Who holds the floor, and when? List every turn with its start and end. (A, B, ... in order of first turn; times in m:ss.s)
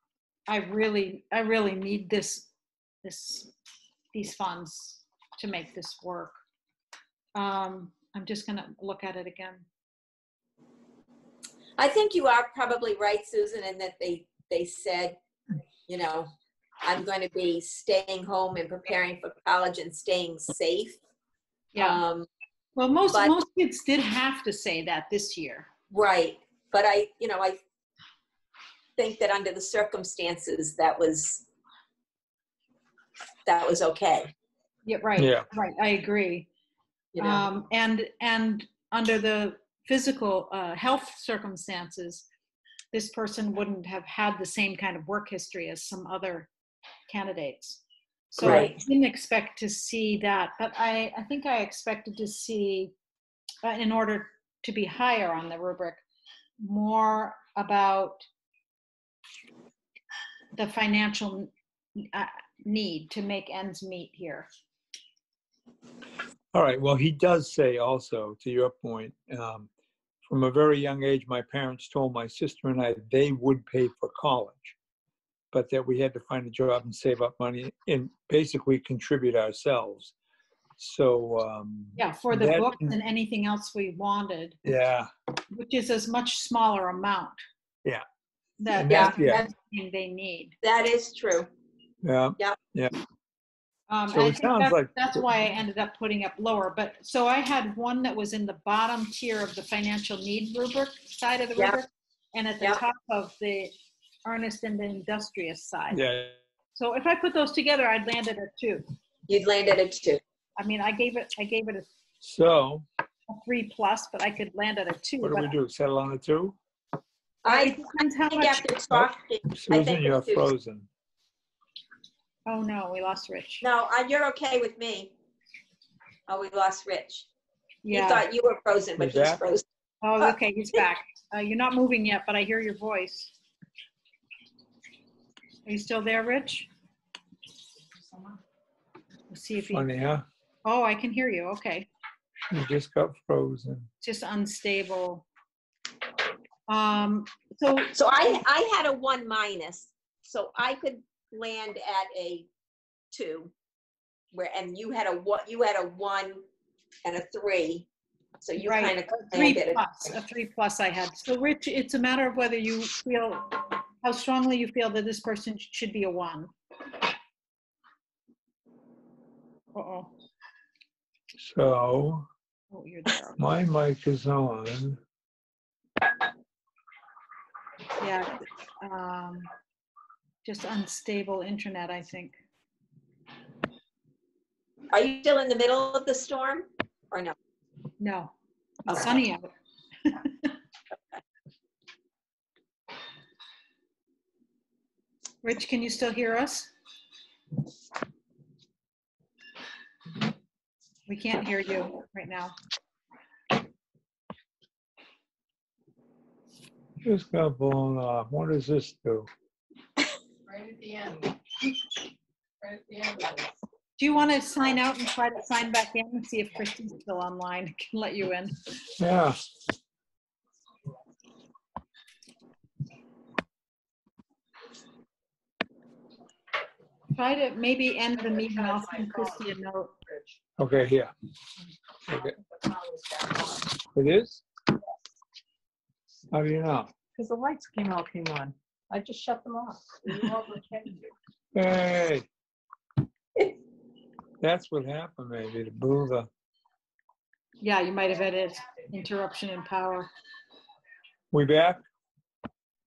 0:00.5-0:02.5 A
0:03.0-0:03.5 A
0:04.1-0:06.4 A
0:07.4-0:09.6 A
0:11.8-0:15.2 B
0:15.9-0:16.3 B
0:16.8-0:21.0 B
0:21.7-0:22.0 A
0:21.8-0:22.3 B
0:22.8-0:25.7 A
0:25.9-0:27.6 B
0:29.0-0:31.4 B
0:33.4-0:34.3 B
0:34.9-0:36.5 A
0:35.2-0:35.5 C
0:37.1-0:37.4 B
0:37.2-0:42.2 A
0:42.9-0:46.5 A
0:47.1-0:52.9 A
0:48.4-0:48.7 C
0:48.4-0:48.7 B
0:53.6-0:56.0 A
0:56.6-0:58.2 A
1:00.5-1:04.5 A
1:06.5-1:09.7 C
1:10.2-1:14.8 C
1:15.5-1:20.1 C
1:20.8-1:22.9 C
1:22.0-1:24.6 A
1:24.6-1:25.1 C
1:25.5-1:27.4 A
1:28.6-1:30.6 A
1:28.7-1:29.4 C
1:28.9-1:29.4 B
1:30.6-1:31.5 B
1:32.0-1:32.9 C
1:33.9-1:43.7 A
1:34.1-1:35.2 C
1:44.2-1:46.0 A
1:45.9-1:46.4 C
1:46.8-1:48.8 A
1:49.3-1:50.2 B
1:50.6-1:51.9 A
1:52.2-1:52.9 C
1:53.3-1:55.5 A
1:55.2-1:56.6 C
1:57.4-2:00.5 B
1:57.4-1:58.7 A
1:58.9-2:00.9 C
2:02.5-2:03.6 A
2:03.6-2:05.1 B
2:06.3-2:07.3 B
2:07.8-2:08.3 A
2:07.9-2:09.6 B
2:09.0-2:09.4 C
2:10.0-2:13.3 A
2:15.7-2:16.7 A
2:19.3-2:19.9 A
2:19.7-2:20.2 C
2:20.6-2:21.9 A
2:22.5-2:23.9 C
2:24.0-2:25.2 A
2:26.7-2:28.0 A
2:28.0-2:32.5 B
2:33.1-2:33.5 B
2:34.3-2:36.4 B
2:37.0-2:37.9 B
2:38.4-2:39.8 B
2:38.6-2:46.5 A
2:49.7-2:50.1 A
2:51.4-2:52.3 C
2:52.7-2:53.4 A
2:53.4-2:55.0 C
2:58.0-2:59.5 A
3:00.4-3:02.4 A
3:04.9-3:07.3 B
3:08.0-3:08.3 A
3:08.8-3:09.5 A
3:08.9-3:09.2 B
3:10.0-3:10.5 A
3:15.4-3:16.7 A
3:21.1-3:22.6 A
3:27.0-3:29.3 C
3:30.5-3:31.4 D
3:32.6-3:33.5 D
3:34.0-3:38.5 A
3:39.0-3:39.4 C
3:47.1-3:49.9 A
3:48.7-3:49.3 D
3:50.6-3:51.1 C
3:52.1-3:52.4 C
3:52.2-3:53.7 D
3:53.9-3:54.4 C
3:56.3-3:56.9 C
3:57.1-4:01.0 D
4:01.6-4:02.3 C
4:04.4-4:06.3 C
4:07.6-4:10.1 A
4:11.3-4:11.8 C